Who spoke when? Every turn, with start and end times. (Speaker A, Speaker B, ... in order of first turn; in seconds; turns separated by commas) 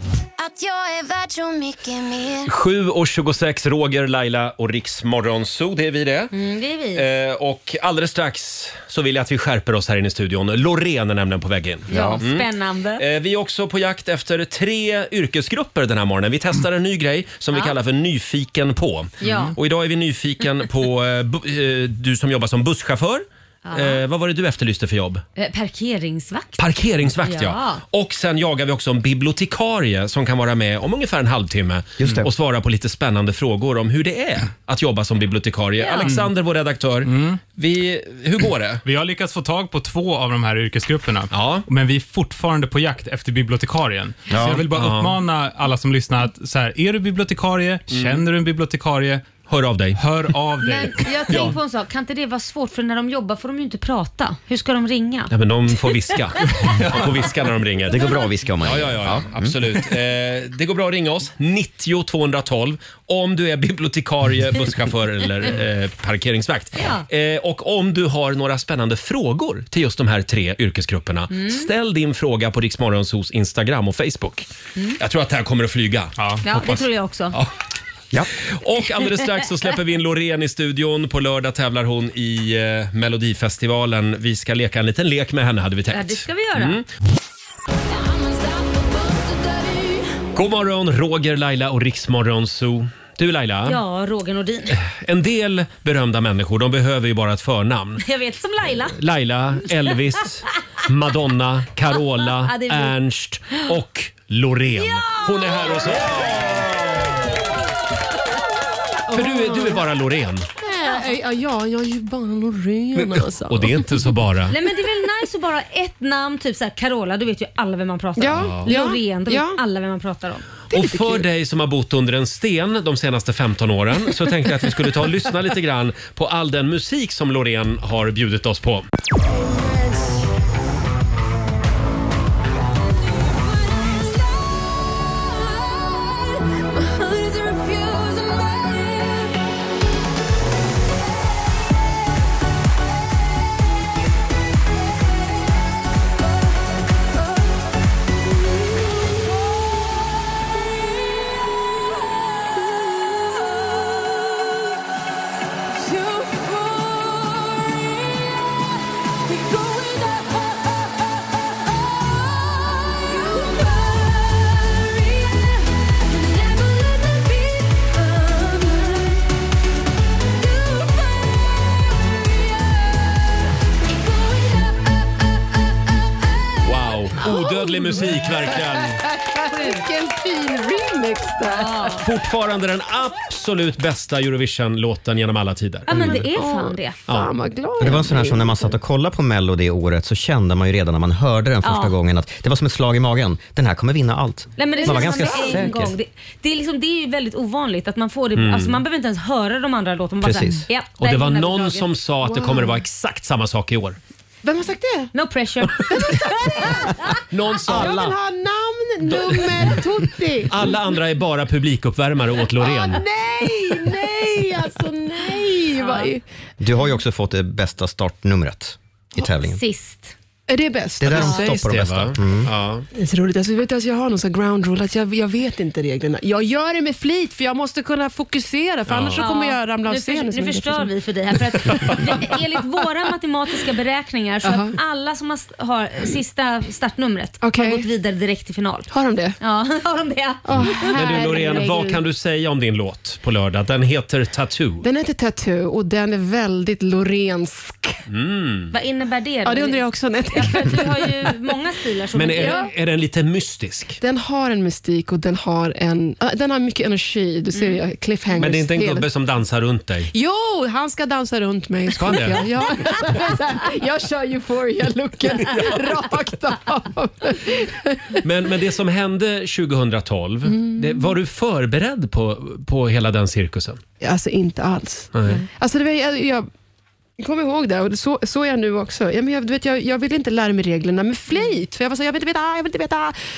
Speaker A: 0.4-2.4, Speaker B: 2.4-6.3, Speaker C: 6.3-7.0, Speaker B: 6.9-25.2, Speaker D: 11.9-12.2, Speaker C: 11.9-13.0, Speaker C: 19.2-19.5, Speaker C: 23.6-24.0, Speaker C: 25.4-26.6, Speaker B: 26.6-38.8, Speaker C: 27.2-27.8, Speaker D: 32.0-32.3, Speaker C: 35.8-36.1, Speaker E: 37.0-37.4, Speaker E: 38.8-49.3, Speaker B: 41.3-41.6, Speaker D: 44.3-44.6, Speaker B: 44.7-45.1, Speaker B: 47.9-48.2, Speaker B: 49.5-50.0, Speaker E: 49.9-51.5, Speaker C: 50.6-55.9, Speaker B: 55.3-58.0, Speaker D: 57.9-59.5, Speaker B: 58.6-74.5, Speaker C: 66.8-67.0, Speaker C: 71.3-71.7, Speaker B: 75.0-76.8, Speaker E: 76.2-76.4, Speaker C: 76.4-77.3, Speaker B: 78.5-86.8, Speaker C: 85.9-86.8, Speaker B: 90.3-93.8, Speaker C: 93.6-94.8, Speaker B: 94.7-98.0, Speaker C: 98.0-99.0, Speaker B: 99.0-107.2, Speaker C: 102.4-102.9, Speaker C: 104.7-106.0, Speaker F: 109.1-109.8, Speaker B: 109.1-110.5, Speaker F: 110.6-113.9, Speaker B: 113.5-114.5, Speaker C: 114.5-120.4, Speaker F: 118.2-119.6, Speaker B: 118.3-118.7, Speaker F: 120.7-121.3, Speaker B: 120.7-128.9, Speaker B: 176.6-179.0, Speaker F: 177.2-177.9, Speaker F: 178.5-182.0, Speaker C: 179.5-179.8, Speaker C: 181.4-182.1, Speaker B: 182.0-186.2, Speaker C: 185.9-187.0, Speaker F: 185.9-188.7, Speaker D: 187.8-195.9, Speaker C: 191.6-191.9, Speaker C: 194.6-201.8, Speaker F: 194.7-195.6, Speaker B: 198.3-198.8, Speaker D: 200.2-200.7, Speaker B: 201.0-204.0, Speaker F: 202.2-202.8, Speaker F: 204.4-205.1, Speaker C: 205.1-206.8, Speaker F: 205.8-210.8, Speaker B: 207.3-208.2, Speaker B: 209.1-209.7, Speaker B: 210.5-213.0, Speaker F: 212.6-216.2, Speaker C: 215.7-216.1, Speaker D: 216.6-219.6, Speaker C: 219.2-220.1, Speaker F: 220.5-221.6, Speaker D: 221.0-222.5, Speaker B: 221.1-222.9, Speaker F: 222.9-230.9, Speaker B: 228.9-229.2, Speaker C: 229.2-240.9, Speaker F: 231.5-232.3, Speaker F: 234.4-234.8, Speaker F: 237.4-237.9, Speaker F: 238.9-239.4, Speaker F: 240.4-242.0, Speaker B: 240.9-244.8, Speaker F: 244.8-248.0, Speaker B: 248.1-248.7, Speaker C: 248.7-252.7, Speaker F: 249.4-251.3, Speaker B: 252.1-254.0, Speaker F: 252.3-252.7, Speaker F: 254.0-259.1, Speaker C: 257.5-257.8, Speaker B: 258.4-260.1, Speaker F: 260.1-268.2, Speaker B: 262.0-262.5, Speaker B: 268.2-273.8, Speaker F: 270.4-271.1, Speaker F: 274.0-276.5, Speaker B: 275.1-275.4, Speaker F: 277.2-283.2